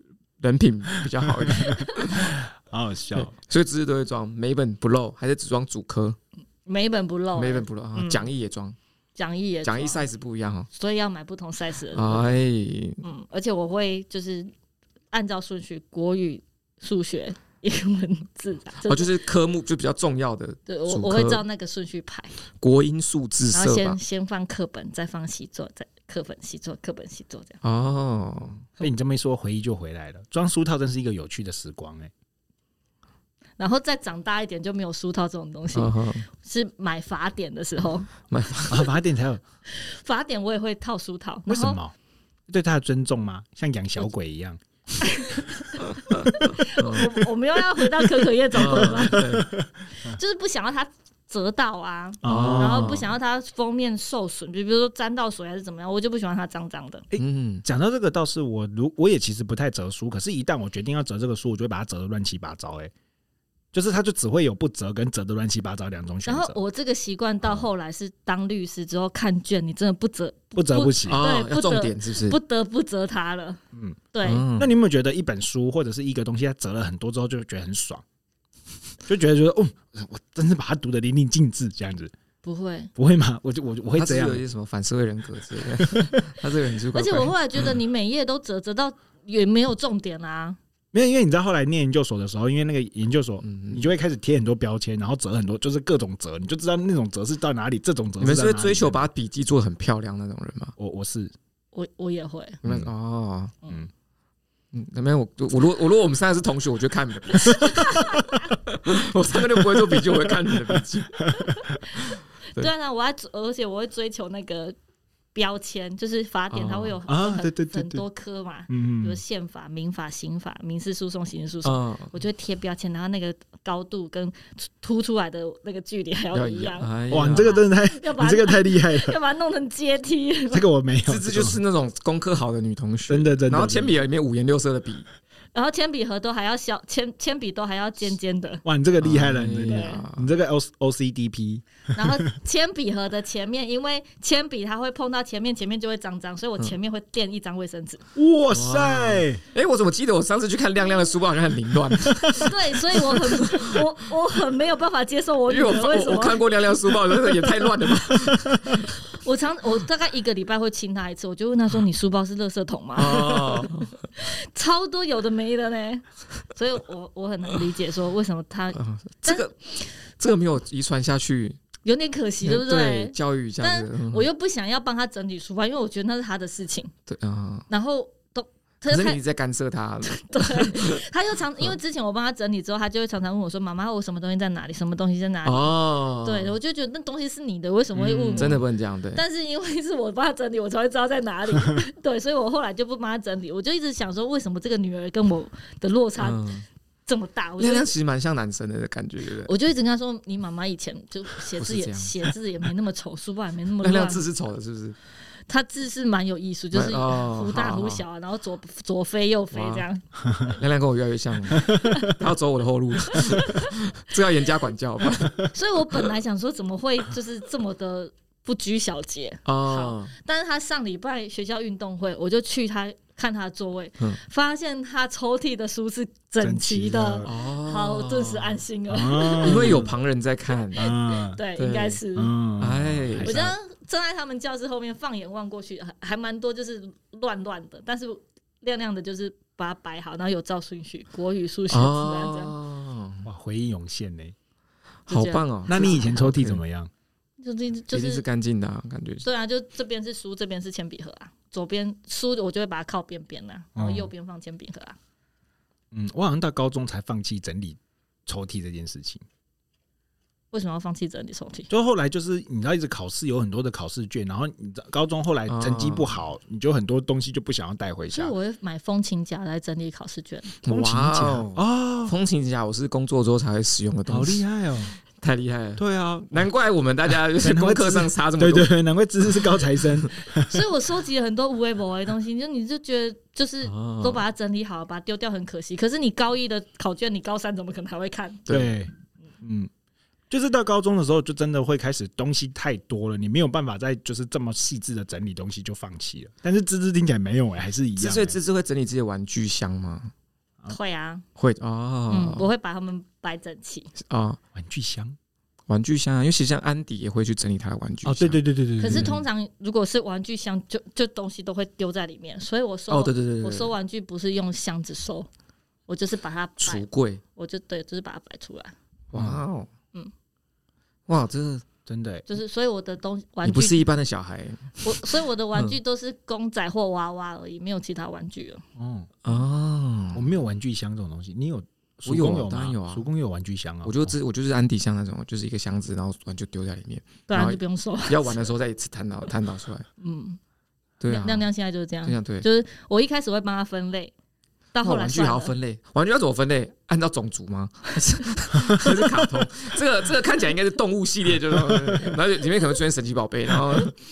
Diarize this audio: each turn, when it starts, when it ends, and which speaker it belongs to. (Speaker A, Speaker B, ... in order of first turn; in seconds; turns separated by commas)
Speaker A: 0.4-2.4, Speaker B: 1.3-3.3, Speaker A: 3.1-6.2, Speaker C: 6.7-8.3, Speaker A: 7.3-8.8, Speaker C: 9.2-10.0, Speaker A: 9.6-10.7, Speaker C: 10.7-12.3, Speaker A: 11.9-13.0, Speaker C: 13.0-14.5, Speaker C: 15.1-19.1, Speaker A: 18.9-21.4, Speaker C: 20.7-22.4, Speaker A: 22.6-24.0, Speaker C: 23.5-27.6, Speaker A: 27.6-28.7, Speaker B: 28.8-32.1, Speaker C: 33.6-38.1, Speaker A: 35.7-36.3, Speaker A: 38.3-38.9, Speaker B: 38.7-39.4, Speaker C: 39.7-41.8, Speaker B: 41.5-41.9, Speaker B: 42.5-44.6, Speaker C: 45.0-49.2, Speaker A: 46.1-47.1, Speaker A: 48.5-49.5, Speaker B: 48.6-49.7, Speaker C: 50.0-57.1, Speaker B: 52.2-53.0, Speaker A: 52.2-53.1, Speaker B: 57.1-62.9, Speaker A: 57.2-57.6, Speaker B: 63.7-66.6, Speaker C: 66.3-73.6, Speaker B: 70.6-71.2, Speaker A: 71.1-72.4, Speaker B: 73.7-74.0, Speaker C: 74.1-74.5, Speaker A: 74.2-74.8, Speaker B: 74.6-78.0, Speaker B: 79.1-82.1, Speaker C: 82.4-82.9, Speaker B: 83.0-84.4, Speaker A: 84.0-87.7, Speaker B: 85.9-86.1, Speaker C: 86.9-90.6, Speaker B: 90.9-99.1, Speaker A: 93.4-93.9, Speaker A: 98.2-100.8, Speaker B: 100.8-101.3, Speaker C: 101.7-102.6, Speaker A: 102.6-103.5, Speaker B: 102.6-102.9, Speaker A: 104.7-111.3, Speaker C: 107.4-108.5, Speaker B: 109.6-111.5, Speaker C: 111.4-114.8, Speaker C: 115.3-130.6, Speaker A: 116.5-117.0, Speaker B: 117.1-118.0, Speaker B: 118.7-119.2, Speaker A: 121.6-122.1, Speaker A: 126.3-127.6, Speaker B: 127.1-129.2, Speaker B: 130.5-131.6, Speaker A: 131.1-135.1, Speaker B: 133.1-134.0, Speaker C: 135.6-138.6, Speaker B: 138.6-142.2, Speaker A: 139.0-140.3, Speaker C: 139.6-140.0, Speaker C: 141.9-148.0, Speaker B: 148.1-149.4, Speaker A: 148.5-153.8, Speaker C: 152.4-156.4, Speaker A: 155.5-158.9, Speaker C: 159.1-169.4, Speaker A: 163.0-164.1, Speaker A: 168.7-171.6, Speaker C: 171.8-176.9, Speaker A: 172.4-174.3, Speaker A: 177.1-177.7, Speaker C: 177.7-179.2, Speaker A: 178.9-181.0, Speaker C: 180.1-196.4, Speaker A: 185.4-186.6, Speaker B: 187.9-188.6, Speaker A: 188.3-189.2, Speaker A: 196.2-196.7, Speaker C: 197.1-197.9, Speaker A: 197.6-199.5, Speaker C: 199.5-204.2, Speaker A: 201.6-202.3, Speaker A: 203.8-205.0, Speaker C: 205.5-210.0, Speaker A: 206.7-208.0, Speaker A: 209.5-209.8, Speaker A: 210.4-215.6, Speaker B: 211.6-212.1, Speaker C: 211.7-212.2, Speaker C: 213.1-213.8, Speaker C: 215.4-229.9, Speaker A: 219.5-220.1, Speaker B: 226.4-227.3, Speaker A: 227.2-228.6, Speaker B: 228.9-229.9, Speaker A: 229.4-231.0, Speaker B: 230.8-231.4, Speaker C: 230.8-232.3, Speaker A: 231.6-232.0, Speaker B: 232.2-233.5, Speaker A: 232.6-233.5, Speaker C: 233.2-242.6, Speaker A: 241.7-243.3, Speaker B: 243.2-244.3, Speaker C: 245.1-246.1, Speaker A: 245.1-246.6, Speaker B: 245.7-246.9, Speaker C: 247.4-248.2, Speaker A: 247.9-249.3, Speaker C: 249.2-255.0, Speaker B: 253.8-254.1, Speaker B: 255.9-259.2, Speaker C: 260.5-261.7, Speaker B: 261.7-268.3, Speaker A: 265.5-266.1, Speaker C: 268.1-270.5, Speaker A: 270.6-274.4, Speaker B: 270.6-272.1, Speaker B: 274.1-274.9, Speaker A: 275.2-278.7, Speaker B: 275.8-276.5, Speaker B: 277.1-280.6, Speaker C: 280.4-288.5, Speaker A: 283.6-284.2, Speaker A: 288.5-288.7, Speaker B: 288.5-289.7, Speaker B: 290.3-298.4, Speaker A: 298.0-300.1, Speaker C: 300.7-301.2, Speaker A: 301.4-302.5, Speaker C: 302.1-303.9, Speaker A: 304.0-304.4, Speaker B: 304.6-305.2, Speaker A: 305.7-309.2, Speaker B: 308.1-309.2, Speaker C: 308.8-315.3, Speaker A: 312.9-313.7, Speaker C: 315.9-316.9, Speaker A: 316.6-317.2, Speaker C: 317.4-318.7, Speaker B: 319.1-319.4, Speaker A: 319.1-319.7, Speaker A: 321.1-321.6, Speaker B: 321.9-322.3, Speaker C: 322.3-323.9, Speaker A: 323.4-325.8, Speaker C: 324.8-328.6, Speaker B: 328.8-329.1, Speaker A: 329.2-330.3, Speaker B: 330.1-334.1, Speaker A: 332.1-333.1, Speaker A: 333.8-339.9, Speaker C: 337.3-338.4, Speaker C: 340.0-340.4, Speaker A: 341.0-341.5, Speaker C: 341.1-344.1, Speaker A: 342.0-342.5, Speaker C: 344.7-345.5, Speaker A: 344.8-354.0